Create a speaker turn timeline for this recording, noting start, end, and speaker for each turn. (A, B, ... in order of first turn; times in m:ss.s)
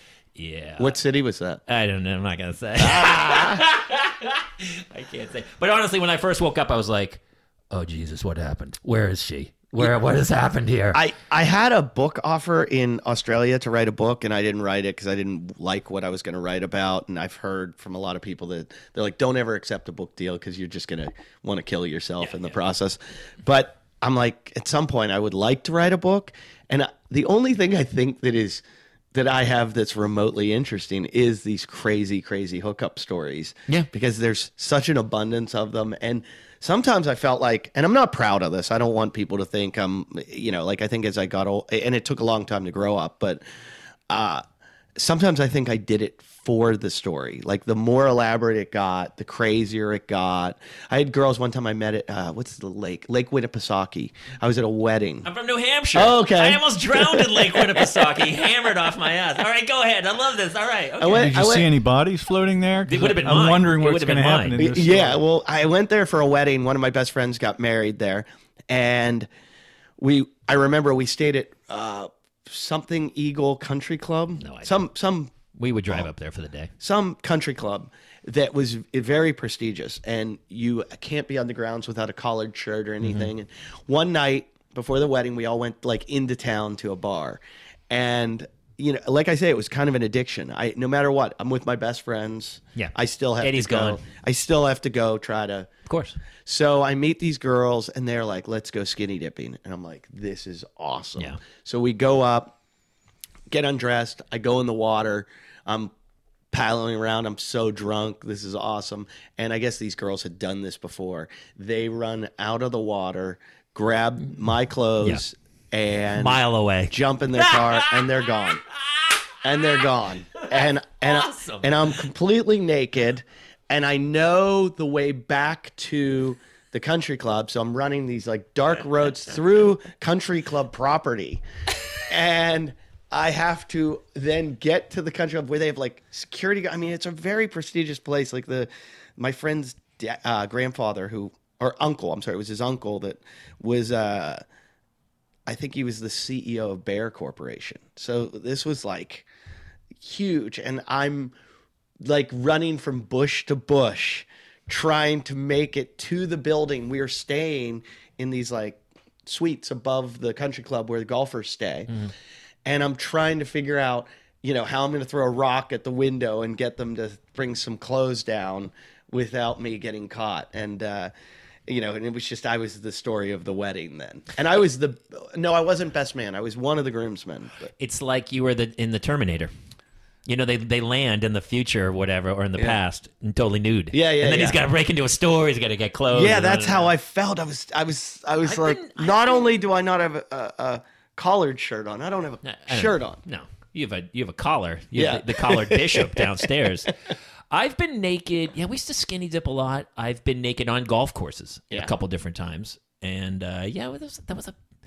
0:00.4-0:01.0 A
0:00.8-0:01.6 B
0:01.7-0:11.0 A
0:02.8-0:03.7 B
0:10.9-0:43.4 B
0:22.2-0:22.6 A
0:44.1-0:44.4 B
0:45.0-0:55.3 B
0:55.2-1:01.4 A
0:56.0-0:58.3 B
1:01.0-1:01.7 B
1:01.1-1:05.2 C
1:02.9-1:04.6 A
1:04.6-1:09.3 B
1:10.0-1:15.4 B
1:14.4-1:14.8 A
1:15.5-1:16.7 A
1:16.8-1:35.7 B
1:23.0-1:23.3 A
1:32.8-1:34.0 A
1:35.9-1:36.2 A
1:36.4-1:42.6 B
1:43.5-1:45.9 B
1:46.5-1:58.6 B
1:56.2-1:59.4 A
1:59.4-2:11.4 B
2:00.4-2:01.7 A
2:12.1-2:24.4 B
2:25.5-2:29.3 B
2:30.0-2:31.3 B
2:32.0-2:41.9 B
2:42.6-2:51.1 B
2:51.7-2:57.7 B
2:57.8-2:59.5 A
3:00.3-3:06.9 A
3:03.9-3:04.6 B
3:06.1-3:13.2 B
3:08.4-3:09.4 A
3:12.4-3:16.9 A
3:15.0-3:16.5 B
3:17.5-3:24.6 A